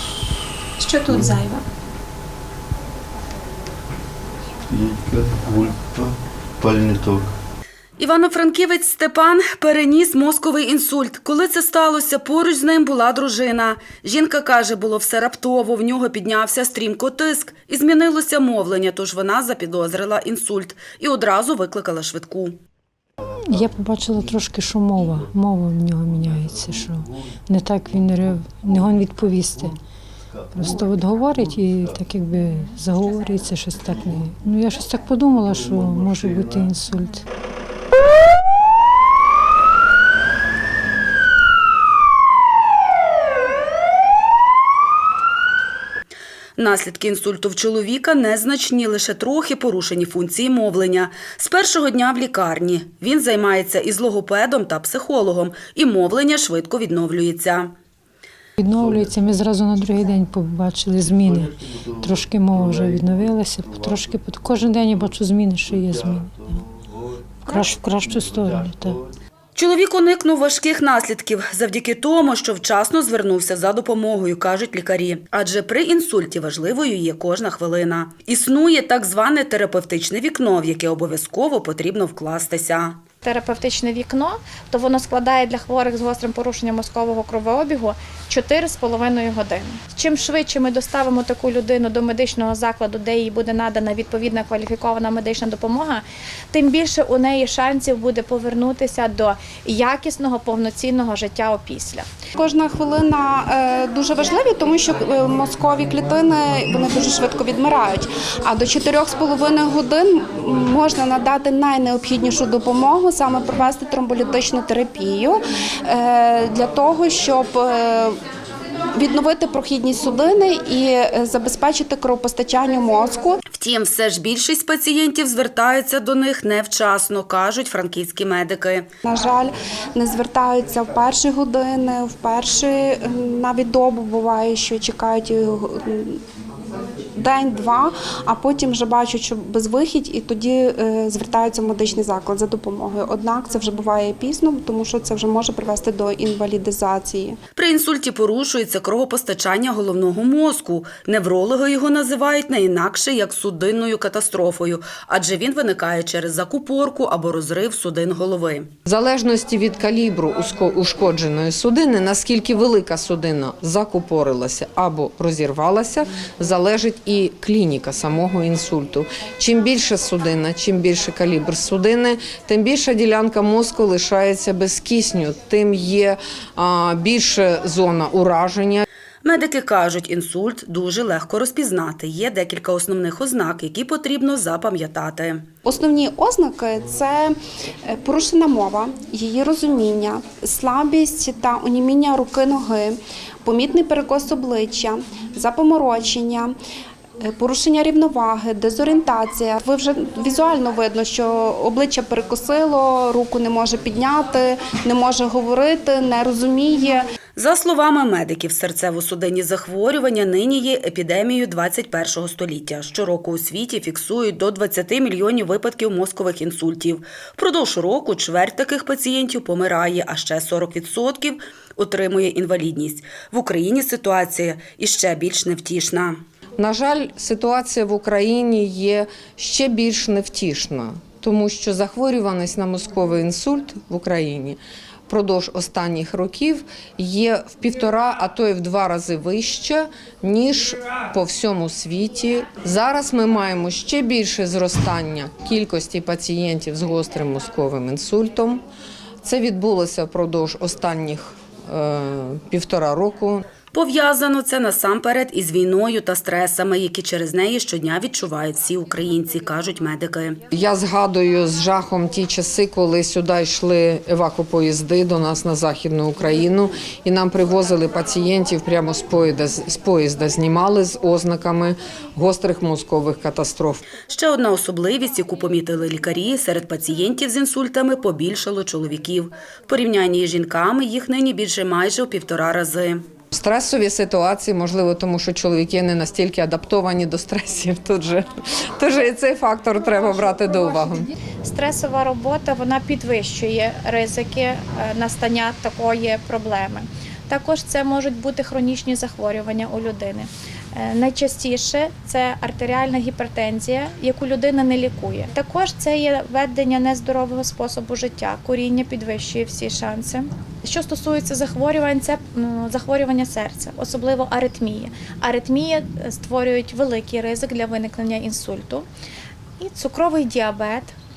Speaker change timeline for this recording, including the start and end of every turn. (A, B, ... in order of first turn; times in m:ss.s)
0:01.2-0:01.5 A
0:04.7-0:07.3 B
0:08.0-0:22.6 C
0:23.4-0:29.7 D
0:30.5-0:37.2 D
0:35.5-0:36.7 B
0:46.6-0:57.7 C
0:58.6-1:06.6 D
0:58.7-0:59.3 B
1:01.1-1:06.6 B
1:07.5-1:09.0 B
1:07.5-1:09.0 D
1:09.5-1:23.0 C
1:23.2-1:42.1 E
1:42.4-1:58.2 A
1:58.9-2:03.4 A
2:03.5-2:08.9 C
2:09.0-2:16.2 A
2:17.2-2:27.4 A
2:27.5-2:38.7 C
2:38.8-2:58.8 F
2:59.2-3:05.4 C
3:05.6-3:16.5 A
3:17.2-3:27.1 A
3:27.4-3:46.2 C
3:46.6-4:08.6 F
4:09.2-4:13.4 F
4:13.7-4:20.4 C
4:20.5-4:33.8 F
4:34.1-4:43.0 C
4:43.3-4:51.1 F
4:51.4-5:18.8 E
5:19.6-5:21.0 E